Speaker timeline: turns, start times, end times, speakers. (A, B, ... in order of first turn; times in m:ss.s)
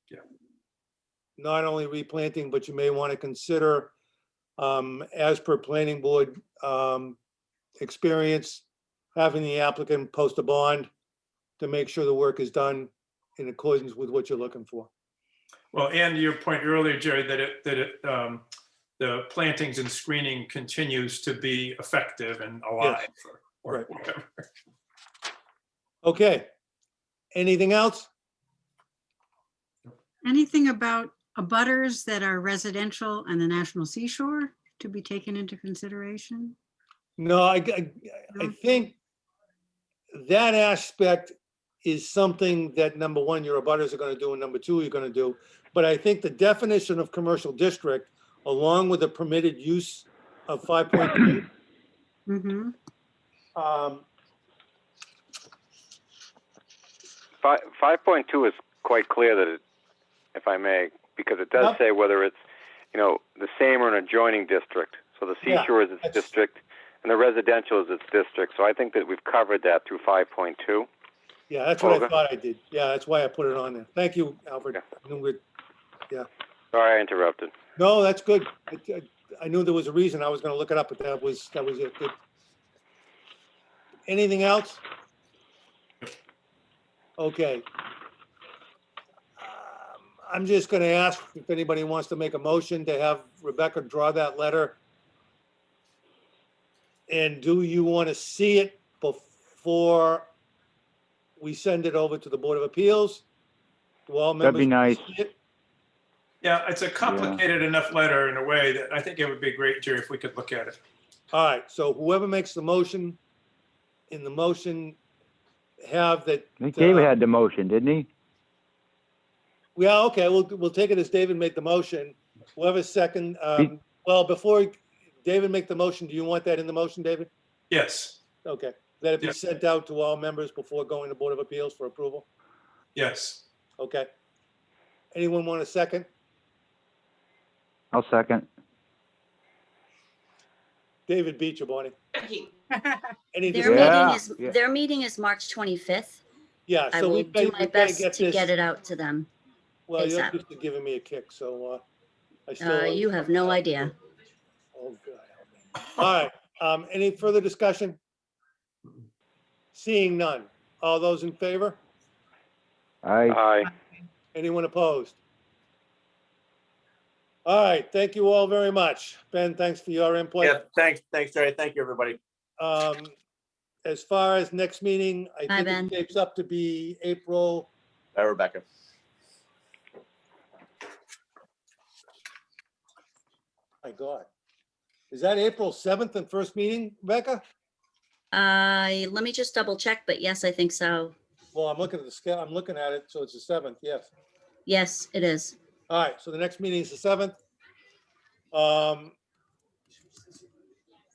0:01.4-0:03.9 A
0:04.6-0:07.2 A
0:07.8-0:08.6 A
0:09.2-0:10.9 A
0:11.6-0:14.9 A
0:15.7-0:18.4 B
0:19.0-0:24.4 B
0:26.0-0:26.5 A
0:27.3-0:28.1 A
0:30.2-0:36.6 C
0:37.2-0:39.0 A
0:40.1-0:51.5 A
0:52.3-0:52.7 C
0:53.6-0:54.0 A
0:57.4-0:59.6 D
1:00.3-1:02.4 D
1:02.9-1:10.9 D
1:05.4-1:06.2 A
1:11.5-1:15.4 A
1:11.8-1:12.1 D
1:16.7-1:17.5 D
1:17.8-1:22.2 A
1:24.1-1:24.8 A
1:27.2-1:27.6 A
1:29.4-1:34.8 A
1:37.1-1:40.3 A
1:41.4-1:43.2 A
1:44.1-1:45.3 A
1:44.4-1:45.1 E
1:46.4-1:50.8 B
1:47.0-1:47.4 E
1:51.3-1:53.2 A
1:54.1-1:55.0 A
1:55.8-1:57.1 A
1:56.6-1:58.1 E
1:59.8-2:07.3 A
2:07.7-2:08.2 B
2:08.4-2:12.3 A
2:13.0-2:13.4 B
2:13.8-2:14.1 A
2:15.1-2:16.1 A
2:17.9-2:18.5 E
2:21.1-2:21.9 A
2:23.3-2:24.0 A
2:23.5-2:26.2 F
2:23.6-2:24.5 E
2:26.7-2:28.5 A
2:26.9-2:29.3 F
2:29.9-2:31.8 A
2:30.0-2:30.3 F
2:32.5-2:33.9 A
2:32.6-2:33.9 F
2:34.8-2:38.0 A
2:39.7-2:41.8 A
2:43.0-2:43.4 E
2:43.3-2:43.7 D
2:44.3-2:45.2 A
2:47.4-2:50.6 A
2:50.4-2:52.2 G
2:52.6-2:53.1 A
2:53.8-2:57.7 A
2:55.5-2:55.9 F
2:58.1-2:58.6 G
3:03.8-3:04.3 A
3:05.1-3:07.4 A
3:08.3-3:11.1 F
3:11.5-3:14.1 A
3:14.7-3:15.6 F
3:15.9-3:17.4 A
3:18.5-3:19.1 A